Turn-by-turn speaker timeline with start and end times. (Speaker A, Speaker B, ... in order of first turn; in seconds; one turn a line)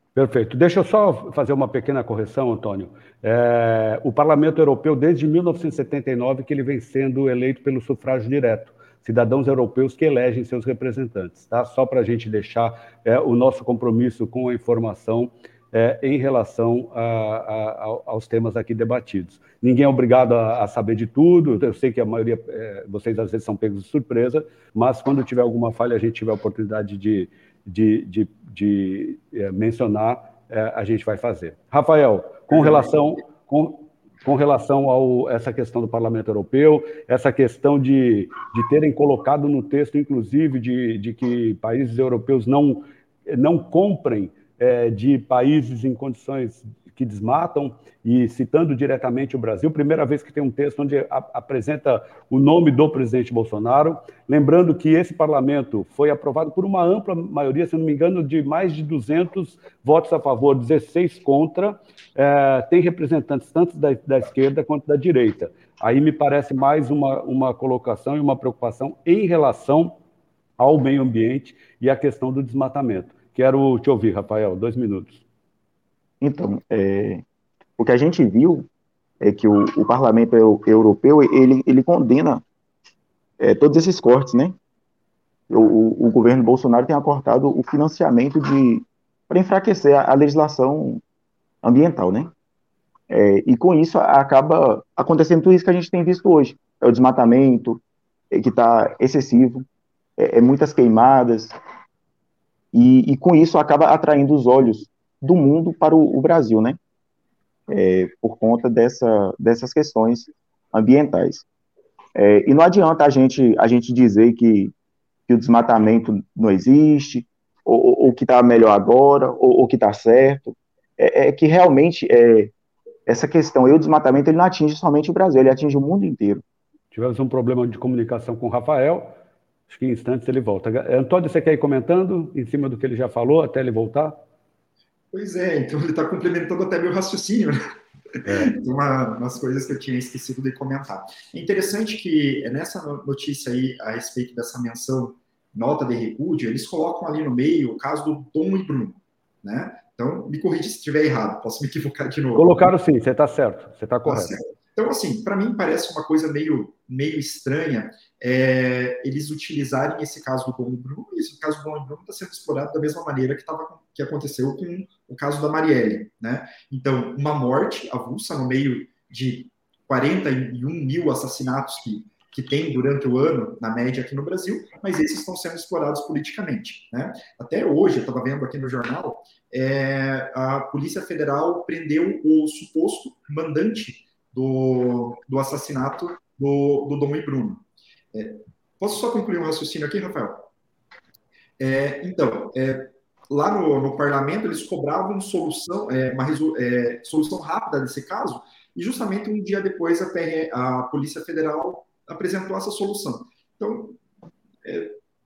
Speaker A: 0.1-70.0
Speaker B: 32.5-32.8
Speaker A: 70.6-75.2
Speaker C: 76.2-77.2
Speaker C: 77.8-78.7
Speaker C: 79.2-82.4
Speaker C: 83.4-84.6
Speaker C: 85.5-91.0
Speaker C: 91.6-92.3
Speaker C: 93.1-99.7
Speaker C: 100.2-101.6
Speaker C: 102.7-106.8
Speaker C: 107.7-111.5
Speaker C: 112.2-114.7
Speaker C: 115.3-122.5
Speaker C: 123.1-126.4
Speaker A: 126.9-129.2
Speaker A: 129.7-134.2
Speaker B: 135.1-137.6
Speaker A: 138.2-138.6
Speaker B: 138.4-152.7
Speaker A: 152.3-154.4
Speaker B: 154.1-187.6
Speaker B: 188.1-190.5
Speaker B: 191.6-204.0
Speaker B: 204.7-204.9